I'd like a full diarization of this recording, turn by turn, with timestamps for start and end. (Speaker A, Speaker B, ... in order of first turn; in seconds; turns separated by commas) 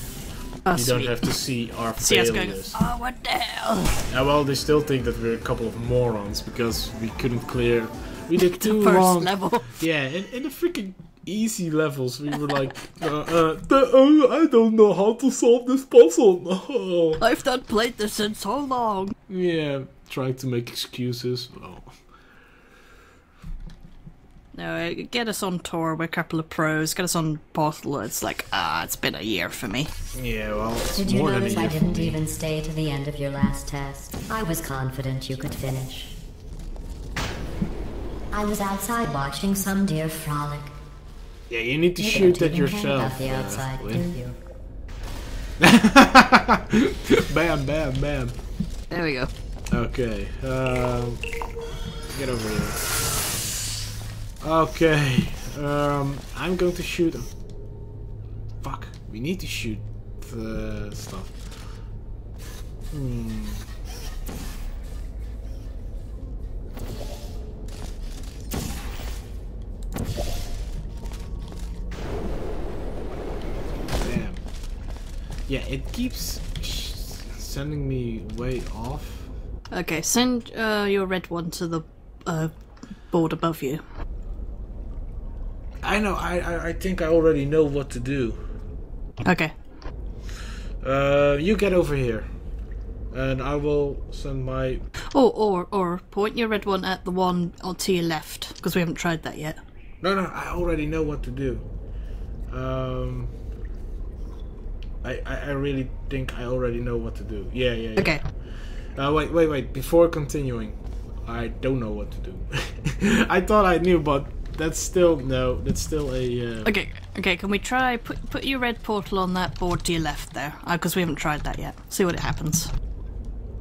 Speaker A: 0.7-1.3, Speaker B: 0.7-2.8, Speaker A: 2.0-4.0, Speaker B: 4.1-17.2, Speaker A: 8.6-9.7, Speaker A: 17.2-19.1, Speaker B: 19.3-22.0, Speaker A: 24.5-29.9, Speaker B: 30.1-32.2, Speaker C: 30.9-36.2, Speaker C: 38.3-40.8, Speaker B: 41.5-44.1, Speaker C: 42.0-44.4, Speaker B: 45.6-48.4, Speaker A: 48.9-49.3, Speaker B: 49.7-51.3, Speaker B: 52.1-52.9, Speaker B: 54.4-57.3, Speaker B: 58.6-61.9, Speaker B: 62.9-63.7, Speaker B: 74.0-74.5, Speaker B: 75.5-79.3, Speaker A: 79.7-83.8, Speaker B: 85.8-88.4, Speaker A: 89.2-89.6, Speaker B: 90.8-92.4, Speaker B: 93.1-94.8, Speaker A: 95.1-99.6, Speaker B: 100.0-101.7, Speaker B: 102.5-103.3, Speaker B: 105.0-116.7, Speaker A: 108.0-108.2, Speaker A: 116.7-122.7